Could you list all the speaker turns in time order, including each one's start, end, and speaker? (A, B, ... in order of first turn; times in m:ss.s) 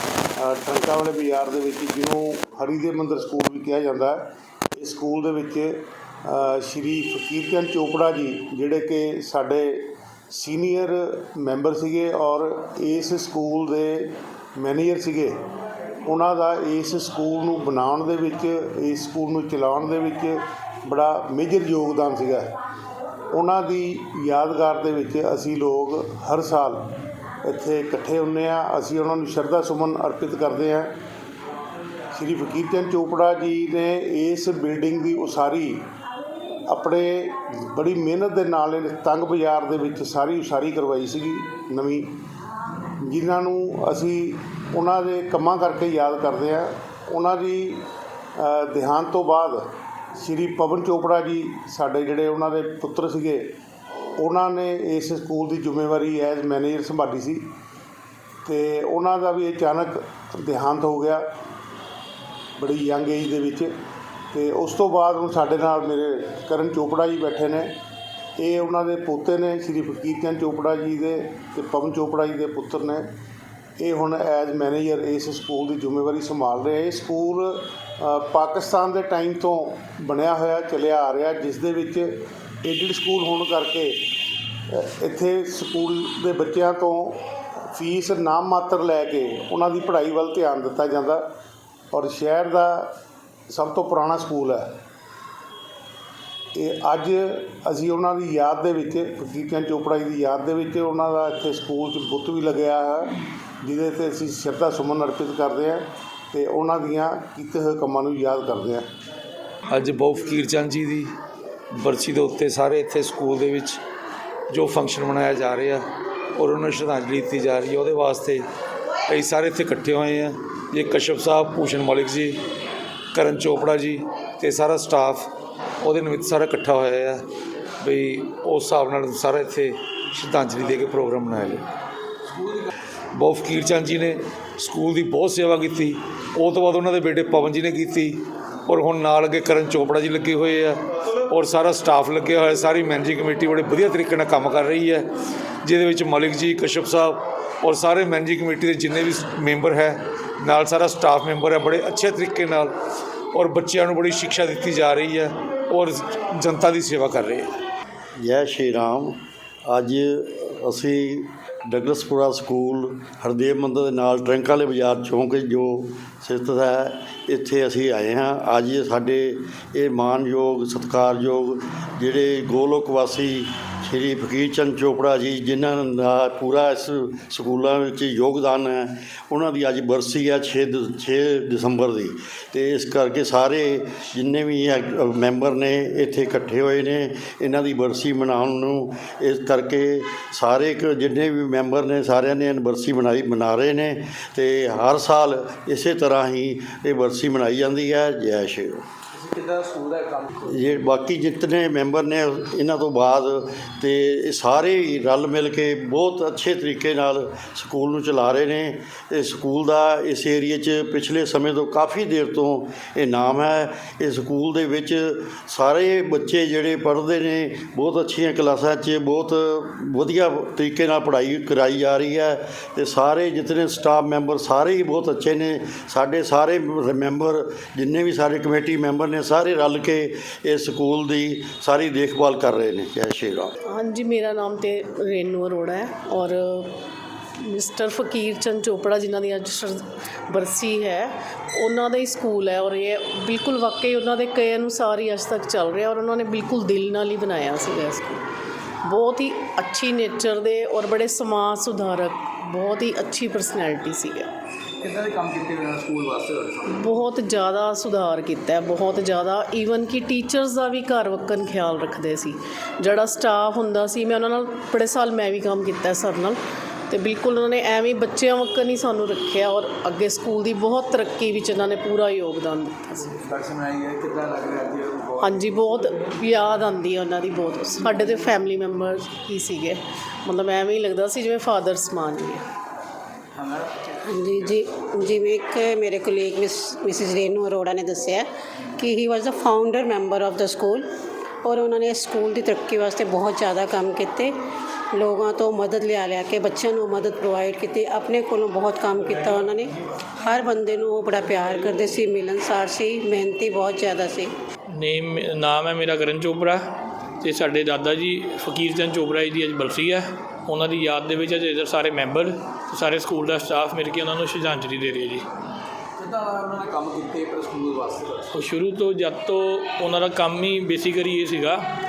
0:00.4-0:15.4 A
0:16.0-0:22.5 A
0:23.3-0:26.8 A
0:27.4-0:30.9 A
0:32.1-0:35.8 A
0:36.7-0:42.1 A
0:43.0-0:53.5 A
0:54.2-0:57.4 A
0:58.4-1:01.2 A
1:02.6-1:03.7 A
1:04.3-1:07.7 A
1:08.4-1:13.1 A
1:13.8-1:24.0 A
1:24.7-1:31.2 A
1:31.9-1:32.9 A
1:33.5-1:34.7 A
1:36.5-1:48.8 A
1:49.7-1:51.1 B
1:51.8-1:53.8 B
1:54.5-1:55.8 B
1:56.4-1:58.4 B
1:59.1-2:02.4 B
2:03.1-2:05.3 B
2:05.8-2:07.2 B
2:07.8-2:11.6 B
2:13.1-2:25.0 B
2:25.6-2:32.7 B
2:33.3-2:37.5 B
2:38.2-3:18.8 C
3:19.2-3:20.5 D
3:20.5-3:53.5 C
3:53.6-3:56.8 E
3:57.4-4:08.2 E
4:08.8-4:14.3 E
4:14.8-4:16.7 D
4:16.6-4:33.2 E
4:33.3-4:35.3 D
4:35.2-4:42.4 E
4:43.4-4:43.9 D
4:44.0-4:48.3 F
4:48.8-4:50.8 F
4:51.4-4:54.3 F
4:54.9-5:04.3 F
5:04.7-5:06.6 G
5:07.2-5:15.2 G
5:16.0-5:18.3 D
5:18.3-5:21.6 G